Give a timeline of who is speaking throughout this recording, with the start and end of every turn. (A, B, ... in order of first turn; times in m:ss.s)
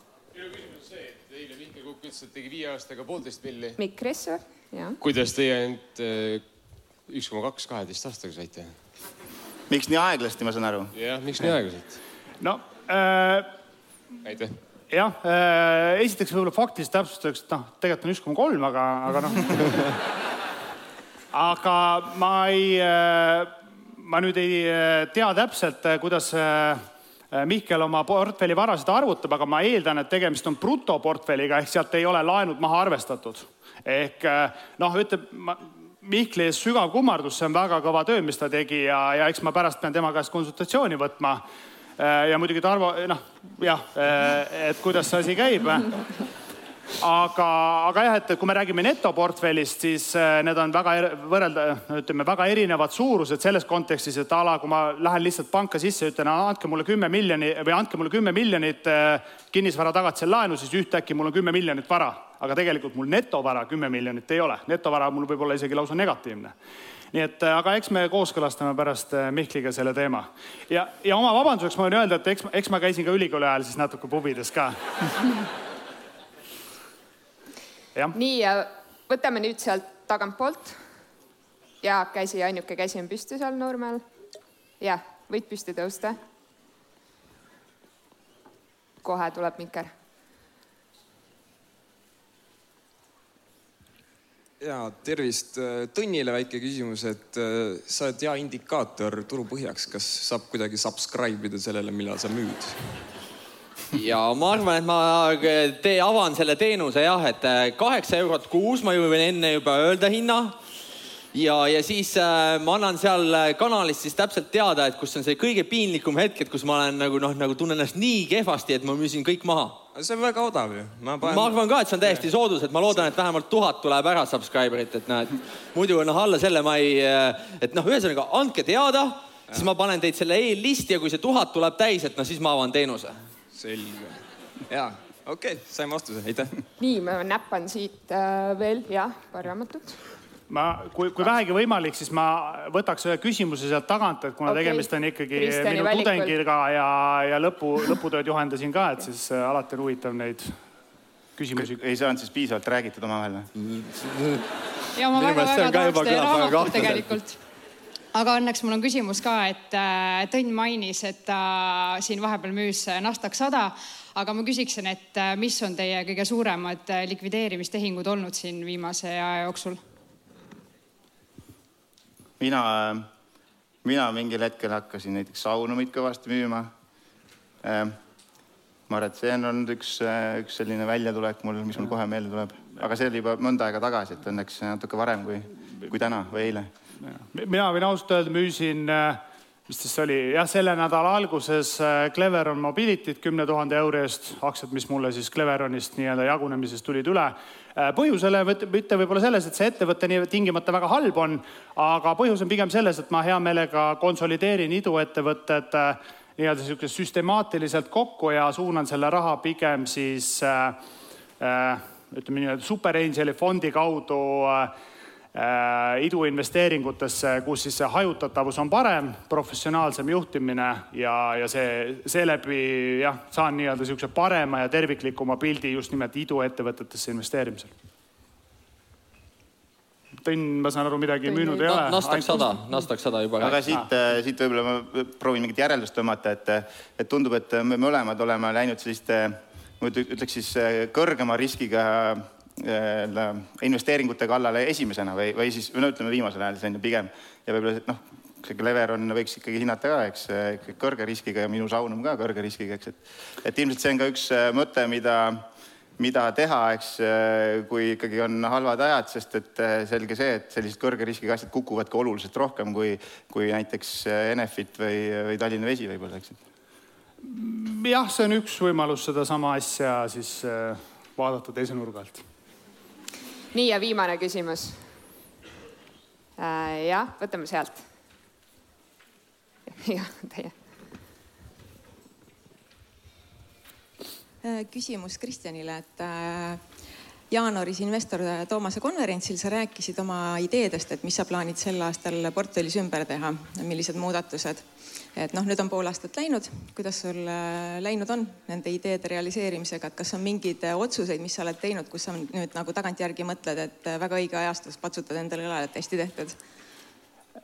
0:01.3-0:03.8 A
0:03.8-0:05.0 B
0:05.0-0:06.4 A
0:07.1-0:08.8 A
0:09.7-0:10.9 C
0:10.9-0:12.0 A
0:12.4-0:13.5 D
0:14.2-0:14.6 A
0:14.9-0:19.8 D
0:21.3-0:41.4 D
0:42.0-0:45.9 D
0:47.0-1:06.5 D
1:07.1-1:14.8 D
1:18.1-1:20.8 B
1:21.8-1:24.0 B
1:24.8-1:26.2 B
1:29.0-1:29.9 B
1:34.6-1:42.8 E
1:43.9-1:50.6 F
1:51.3-1:59.8 F
1:59.9-2:02.3 E
2:01.2-2:13.2 F
2:13.5-2:16.6 E
2:16.8-2:20.0 B
2:20.5-2:30.6 D
2:24.5-2:26.4 B
2:31.4-2:31.8 D
2:31.6-2:33.5 C
2:33.6-2:34.5 F
2:34.9-2:37.4 G
2:35.1-2:37.2 F
2:38.1-2:49.8 G
2:52.4-2:53.1 C
2:53.8-2:56.7 C
2:57.6-2:58.0 C
2:58.9-3:06.7 C
3:07.1-3:30.8 D
3:31.4-3:34.7 D
3:35.3-3:47.7 D
3:50.2-3:52.6 D
3:51.3-3:53.6 F
3:53.4-4:15.5 C
4:16.0-4:26.4 C
4:27.2-4:32.2 D
4:33.5-4:34.8 B
4:36.4-4:37.8 B
4:39.7-4:40.5 B
4:44.4-4:46.6 H
4:47.3-5:06.4 H